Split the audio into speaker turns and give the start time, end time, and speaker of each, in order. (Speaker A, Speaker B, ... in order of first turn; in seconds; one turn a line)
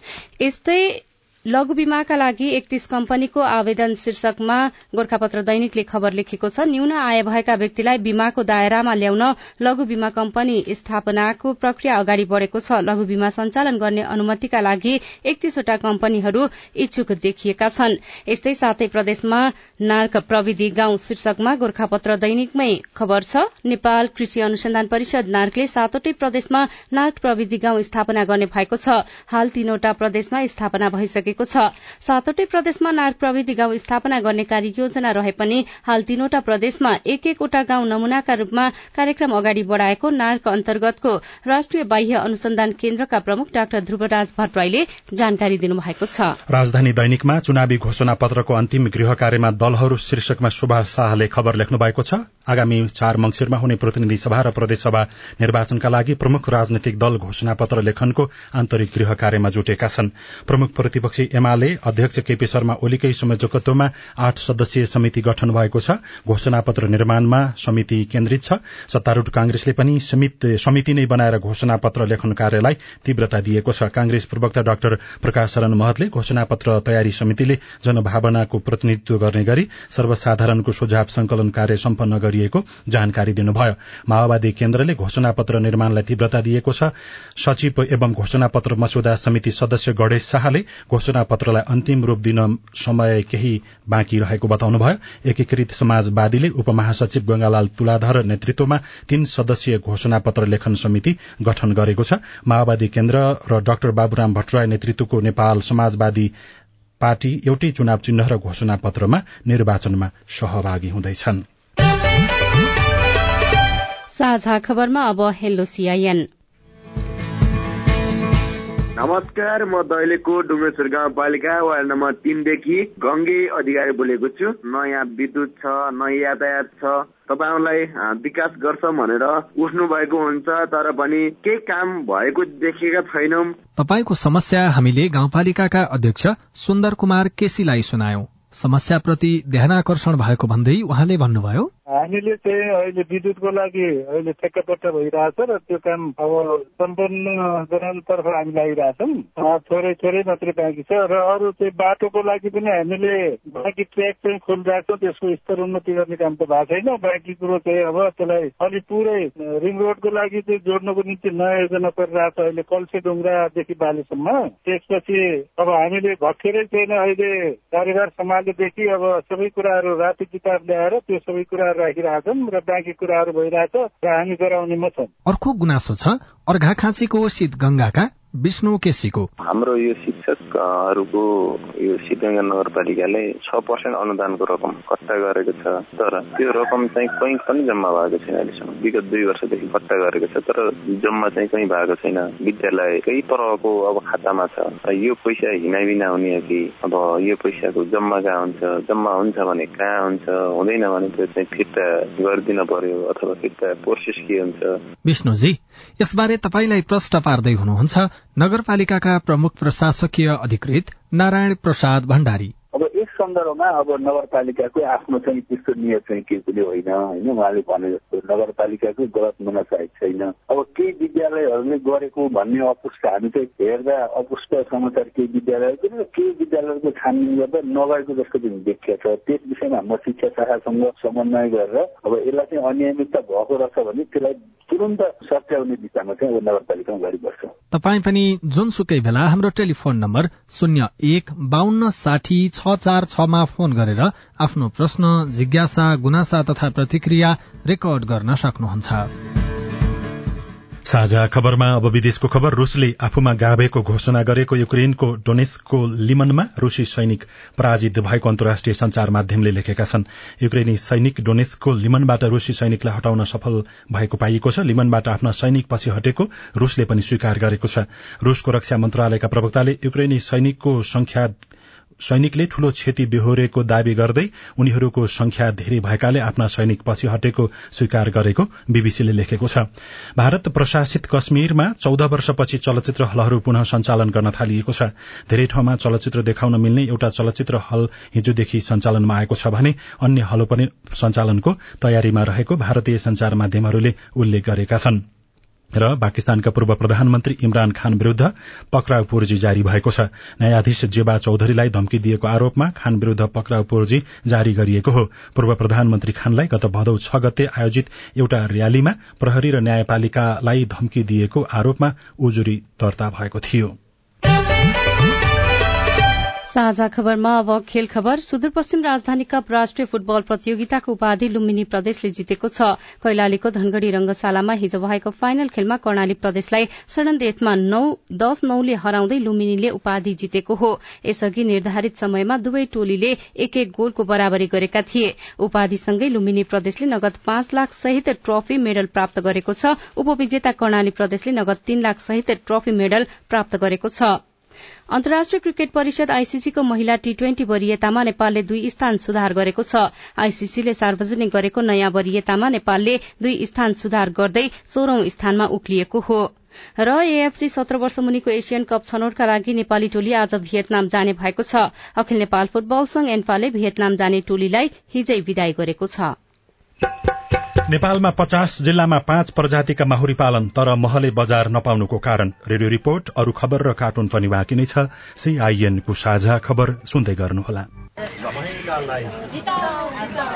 Speaker A: 0.4-46.3
Speaker B: 46.5-106.3
Speaker B: 107.0-111.4
Speaker A: 114.1-116.2
Speaker C: 119.0-133.5
Speaker D: 133.8-141.7
Speaker E: 141.9-175.1
Speaker D: 175.2-179.3
Speaker F: 179.4-204.8
Speaker D: 205.0-212.5
Speaker C: 212.7-237.5
Speaker D: 237.7-249.1
Speaker B: 250.9-271.4
Speaker B: 272.0-295.0
Speaker B: 295.7-313.7
Speaker A: 316.5-344.2
Speaker A: 344.9-366.1
Speaker B: 367.7-377.7